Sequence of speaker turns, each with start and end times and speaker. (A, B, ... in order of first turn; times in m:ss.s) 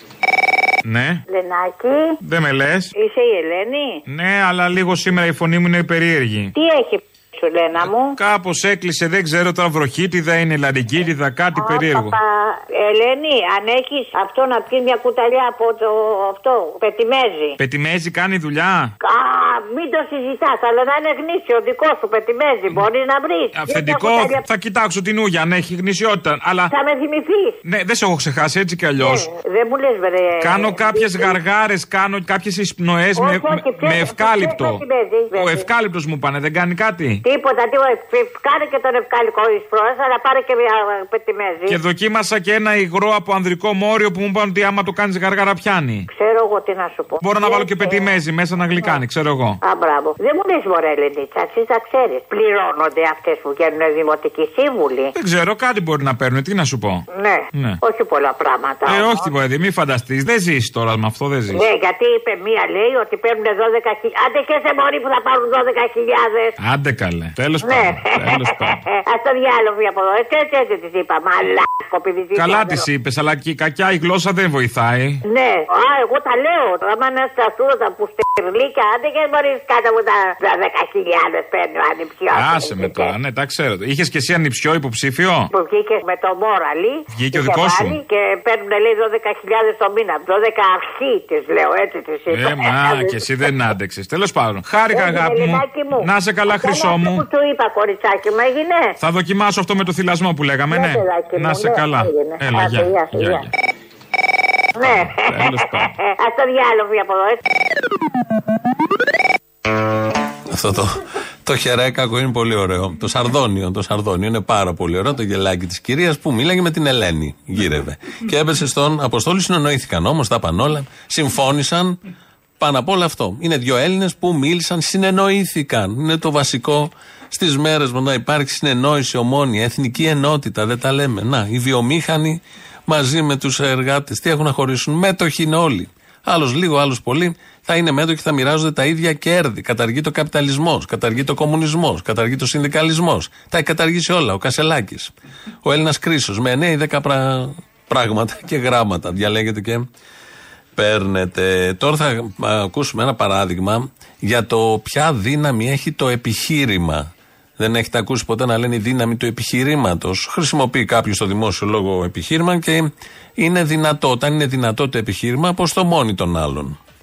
0:00.8-0:01.2 A
0:01.3-0:02.2 B
0:02.2-0:02.9 A
0:03.0-0:04.0 B
0:04.1-0:06.6 A
0:06.6-0:08.2 B
0:07.8-0:12.2 A
0:11.6-0:17.6 B
0:17.6-0:18.9 A
0:19.0-0:24.4 B
0:23.5-0:26.7 A
0:26.7-0:27.6 B
0:27.6-0:29.3 A
0:29.0-0:31.3 B
0:30.4-0:34.8 A
0:33.2-0:35.7 B
0:35.3-0:37.2 A
0:37.2-0:41.8 B
0:41.7-0:46.1 A
0:46.1-0:48.2 B
0:47.2-0:49.6 A
0:49.6-0:55.1 B
0:55.2-0:57.8 A
0:57.1-0:59.3 B
0:58.9-1:01.7 A
1:01.5-1:06.5 B
1:06.6-1:08.8 A
1:07.6-1:12.8 B
1:12.4-1:15.2 A
1:15.3-1:23.1 B
1:22.3-1:25.5 A
1:25.5-1:33.2 B
1:27.1-1:28.0 A
1:32.3-1:37.3 A
1:34.8-1:38.9 B
1:39.0-1:43.5 A
1:40.7-1:43.4 B
1:44.8-1:47.4 B
1:44.8-1:46.0 A
1:50.5-2:02.0 C
2:02.6-2:25.1 C
2:25.6-2:29.9 C
2:30.8-2:46.8 C